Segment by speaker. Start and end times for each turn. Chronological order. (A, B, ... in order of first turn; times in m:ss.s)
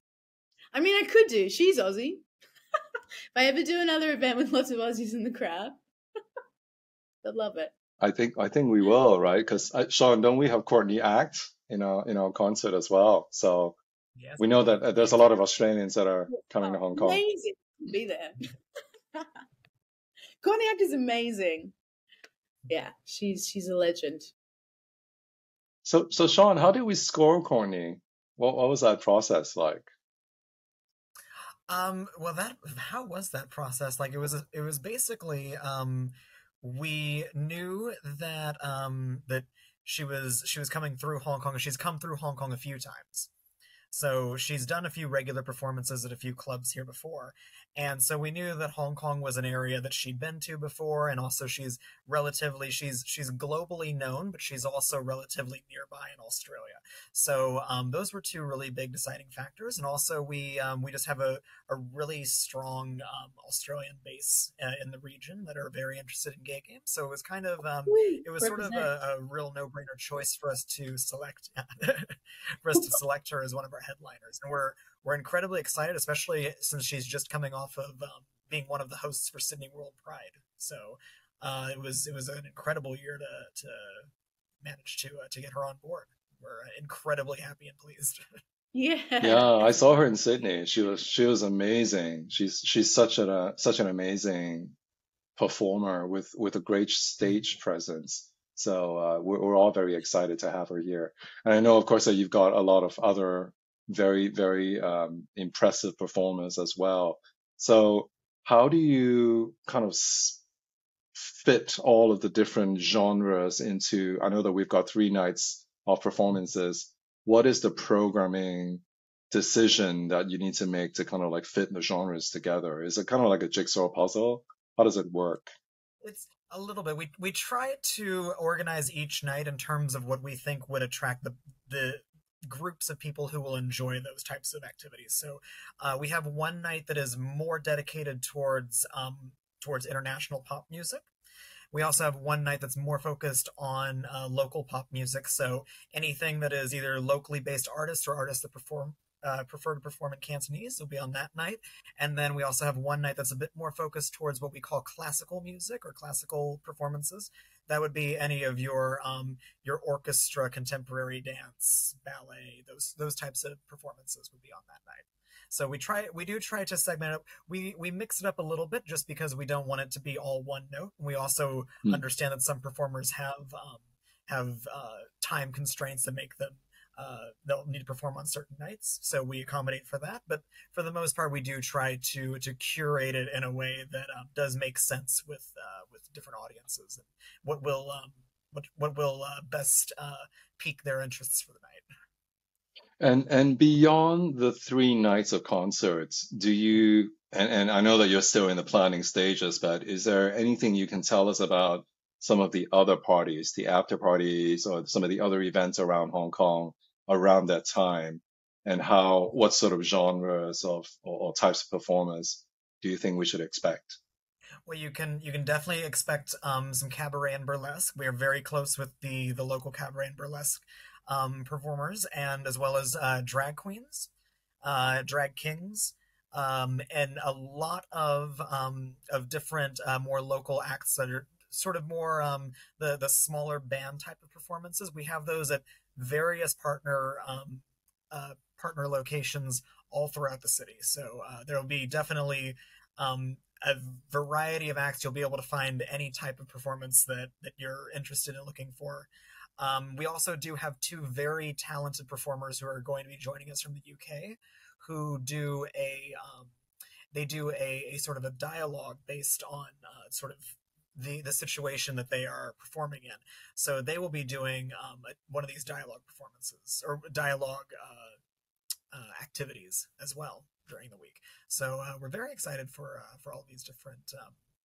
0:00.7-0:02.2 A
0:03.3-0:05.8 A
0:07.2-0:07.7 A
0:08.0-0:13.8 B
0:14.2-0:15.4 C
0:14.4-0:17.2 B
0:16.6-0:18.4 A
0:20.4-0:21.7 A
0:22.7-0:24.3 A
0:25.8-0:29.9 B
0:31.7-0:43.3 C
0:43.9-1:24.1 C
1:07.9-1:08.9 A
1:24.6-1:28.2 C
1:28.7-1:29.8 A
1:29.2-1:34.8 B
1:35.4-1:50.4 B
1:51.1-2:05.5 B
2:06.0-2:21.1 C
2:21.7-3:11.9 C
3:13.0-3:34.0 B
3:34.6-3:44.1 C
3:44.6-4:16.5 C
4:17.1-4:28.2 C
4:28.9-4:34.4 C